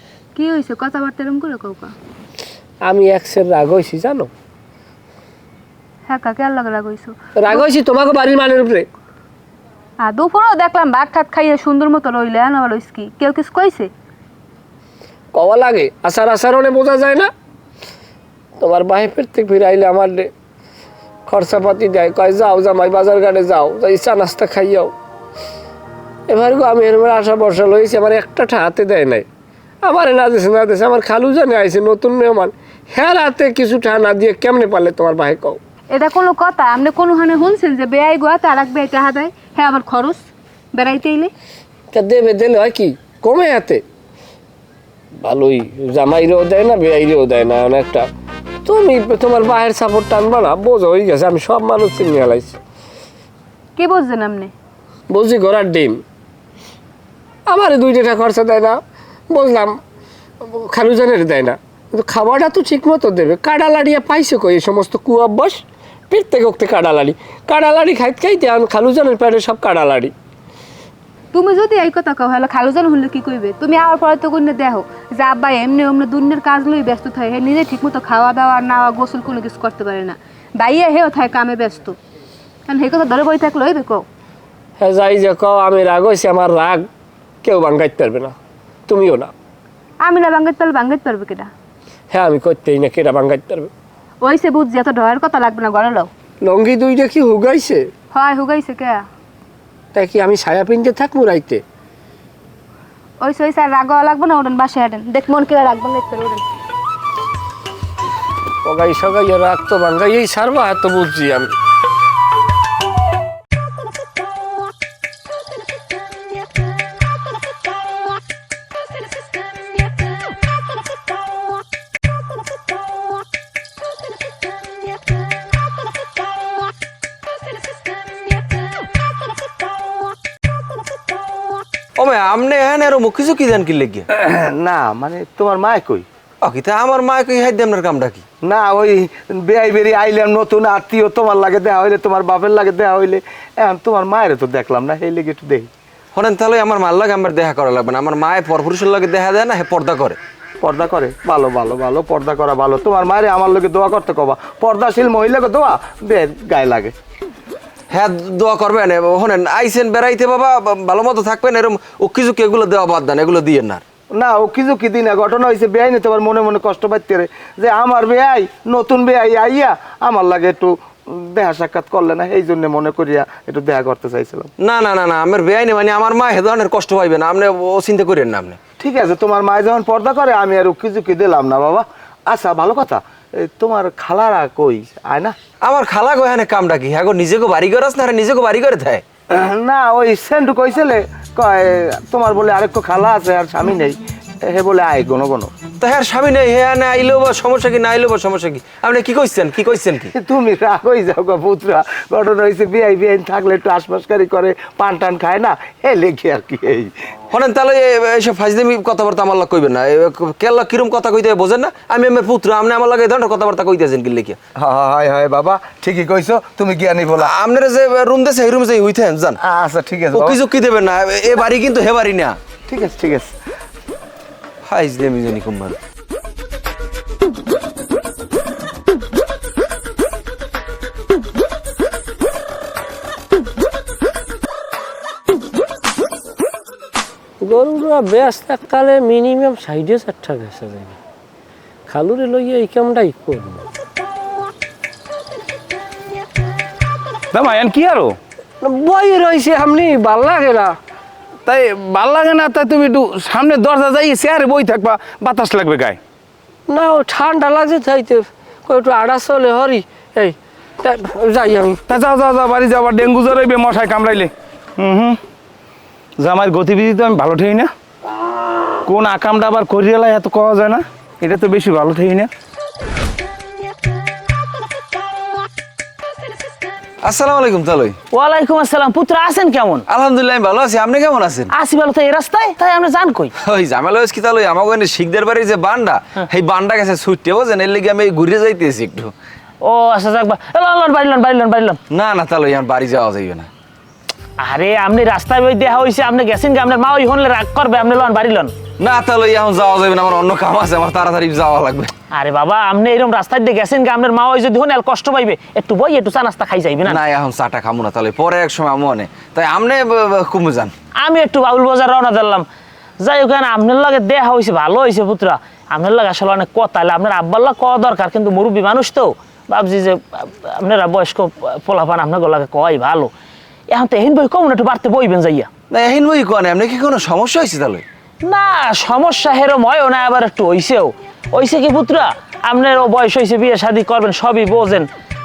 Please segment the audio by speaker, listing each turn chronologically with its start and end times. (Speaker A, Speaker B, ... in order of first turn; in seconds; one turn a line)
Speaker A: 0.3-1.9
Speaker B: 2.8-4.3
Speaker A: 6.1-7.6
Speaker B: 7.3-8.9
Speaker A: 10.0-13.9
Speaker B: 15.3-17.3
Speaker B: 18.6-20.3
Speaker B: 21.3-24.9
Speaker B: 26.3-29.2
Speaker B: 29.8-35.6
Speaker A: 35.9-40.2
Speaker A: 40.7-41.3
Speaker B: 41.9-43.8
Speaker B: 45.2-48.1
Speaker B: 48.6-52.6
Speaker A: 53.8-54.5
Speaker B: 55.1-56.0
Speaker B: 57.5-58.8
Speaker B: 59.3-59.8
Speaker B: 60.4-70.1
Speaker A: 71.3-82.0
Speaker A: 82.7-84.0
Speaker B: 84.8-86.9
Speaker B: 87.4-88.3
Speaker B: 88.9-89.3
Speaker A: 90.0-91.5
Speaker B: 92.1-93.7
Speaker A: 94.2-96.1
Speaker B: 96.4-97.9
Speaker A: 98.1-99.0
Speaker B: 99.9-101.6
Speaker A: 103.2-106.4
Speaker B: 108.6-111.5
Speaker C: 132.0-134.1
Speaker D: 134.1-136.1
Speaker C: 136.4-138.2
Speaker D: 138.4-145.7
Speaker C: 146.1-150.2
Speaker D: 150.6-156.9
Speaker C: 157.9-163.8
Speaker D: 164.1-174.5
Speaker C: 174.6-178.6
Speaker D: 178.8-185.3
Speaker C: 185.6-189.0
Speaker D: 189.3-195.5
Speaker C: 195.8-200.1
Speaker D: 200.1-206.9
Speaker C: 207.3-214.4
Speaker D: 214.6-217.3
Speaker C: 217.2-219.4
Speaker D: 219.4-220.4
Speaker C: 220.1-222.4
Speaker D: 222.7-223.3
Speaker C: 224.7-225.8
Speaker B: 237.4-241.0
Speaker B: 241.9-243.6
Speaker E: 247.3-248.1
Speaker B: 248.6-250.8
Speaker E: 251.4-256.0
Speaker B: 256.7-261.8
Speaker E: 261.9-265.2
Speaker E: 266.2-267.7
Speaker E: 268.8-272.3
Speaker C: 277.0-278.0
Speaker F: 278.1-279.9
Speaker C: 279.9-281.5
Speaker F: 281.5-283.3
Speaker C: 283.4-289.1
Speaker F: 289.6-291.8
Speaker C: 291.9-293.5
Speaker F: 294.4-298.5
Speaker C: 298.8-301.9
Speaker F: 302.1-307.0
Speaker C: 306.8-310.7
Speaker F: 311.0-312.4
Speaker F: 313.0-323.1
Speaker F: 323.7-325.5
Speaker C: 325.7-327.8
Speaker F: 328.2-334.9